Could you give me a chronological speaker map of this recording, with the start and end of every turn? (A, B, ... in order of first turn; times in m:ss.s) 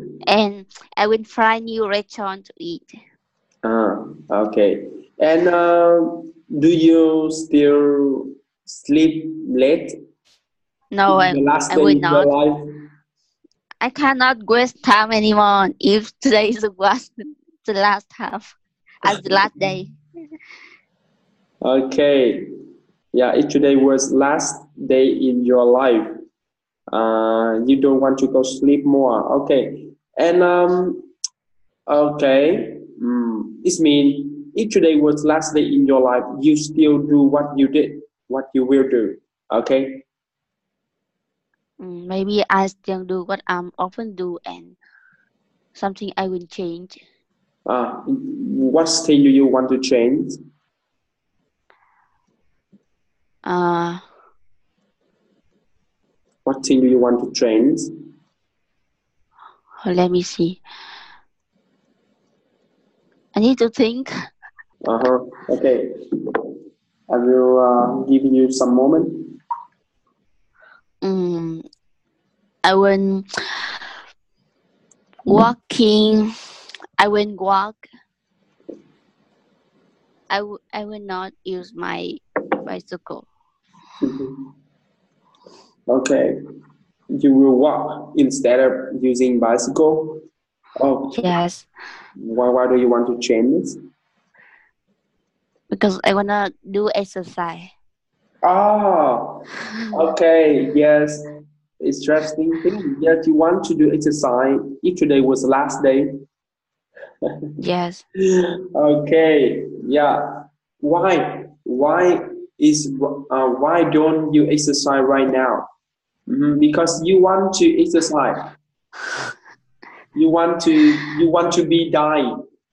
0:00.3-0:03.0 A
0:03.6-0:10.0 B
0:10.9-0:12.3 A
0:11.1-0:12.6 B
0:13.8-0:20.0 A
0:21.6-0:22.5 B
0:23.1-0:26.1 B
0:26.9-0:31.1 B
0:31.9-0:40.0 B
0:41.8-0:44.8 A
0:45.8-0:47.0 A
0:47.7-0:50.4 B
0:53.4-0:54.0 A
0:56.4-0:57.9 B
0:59.8-1:00.6 A
1:03.4-1:04.1 A
1:04.8-1:06.5 B
1:07.1-1:09.4 B
1:11.0-1:11.6 A
1:12.6-1:13.8 A
1:15.2-1:16.3 A
1:17.0-1:17.8 A
1:20.3-1:23.3 A
1:24.0-1:24.4 B
1:25.9-1:26.4 B
1:27.1-1:30.2 B
1:30.8-1:31.3 B
1:31.1-1:31.7 A
1:32.2-1:33.8 B
1:35.7-1:37.7 A
1:38.4-1:41.2 B
1:41.8-1:46.2 B
1:47.6-1:48.0 A
1:48.2-1:55.7 B
1:56.3-1:58.4 B
2:00.1-2:02.4 B